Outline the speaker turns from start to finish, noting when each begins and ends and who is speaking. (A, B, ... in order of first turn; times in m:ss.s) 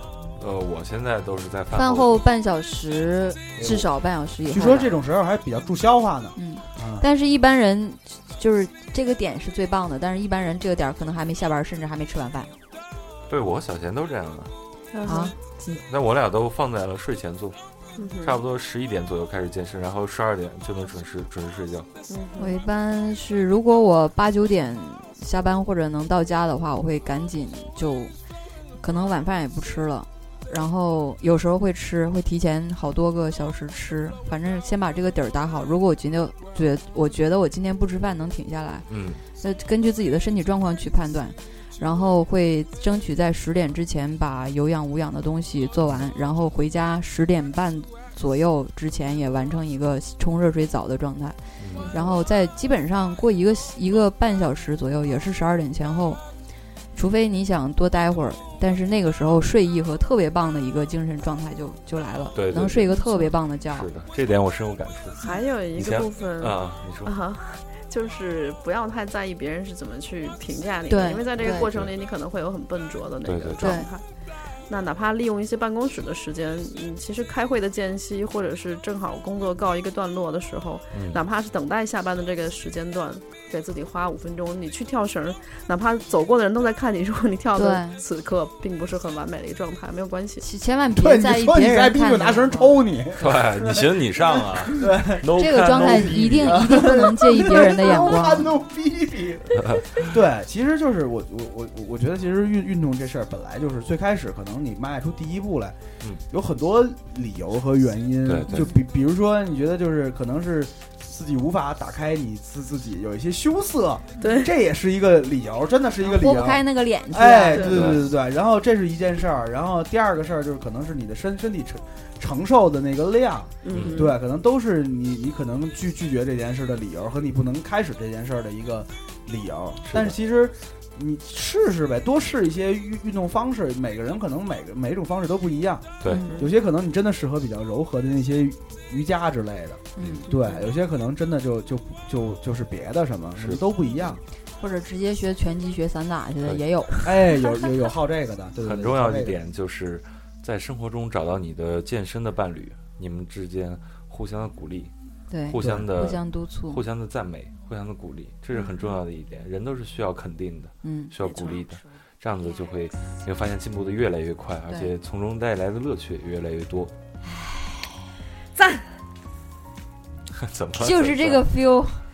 0:00.4-0:02.2 A
0:01.7-0:04.9 B
0:04.5-0:07.0 C
0:06.4-0:12.5 B
0:13.3-0:14.5 A
0:14.9-0:15.3 D
0:15.0-0:15.8 B
0:15.8-0:17.6 A
0:18.0-0:18.4 D
0:18.2-0:21.9 A
0:22.1-0:22.6 D
0:22.4-0:28.1 B
0:28.8-0:38.9 B
0:38.9-0:39.2 A
0:39.4-0:56.2 B
0:51.6-0:51.9 A
0:51.7-0:52.1 D
0:56.9-1:03.9 B
1:02.3-1:02.9 A
1:02.9-1:03.3 D
1:03.7-1:05.2 A
1:05.2-1:14.0 D
1:05.7-1:07.1 A
1:10.9-1:11.7 B
1:11.5-1:11.9 A
1:13.2-1:13.8 A
1:13.6-1:13.9 B
1:14.7-1:30.4 D
1:20.9-1:21.2 A
1:27.5-1:28.0 B
1:30.4-1:32.8 B
1:30.9-1:45.8 C
1:33.2-1:36.9 A
1:35.3-1:38.5 B
1:39.6-1:40.0 A
1:46.3-2:24.2 C
1:48.2-1:48.7 A
1:48.5-1:48.7 B
1:54.2-1:54.5 D
1:56.0-1:57.8 B
1:57.5-1:57.8 D
1:57.7-1:58.0 A
2:03.6-2:04.2 D
2:03.7-2:04.1 A
2:09.8-2:10.1 A
2:16.0-2:16.2 A
2:16.0-2:16.3 B
2:16.2-2:16.6 D
2:20.0-2:20.3 B
2:20.3-2:20.7 D
2:24.6-2:27.2 B
2:27.0-2:29.4 C
2:28.6-2:34.9 A
2:35.3-2:36.8 B
2:35.5-2:46.9 A
2:35.6-2:35.9 C
2:40.8-2:41.6 B
2:48.5-2:48.9 D
2:50.3-2:51.4 A
2:50.8-2:52.0 B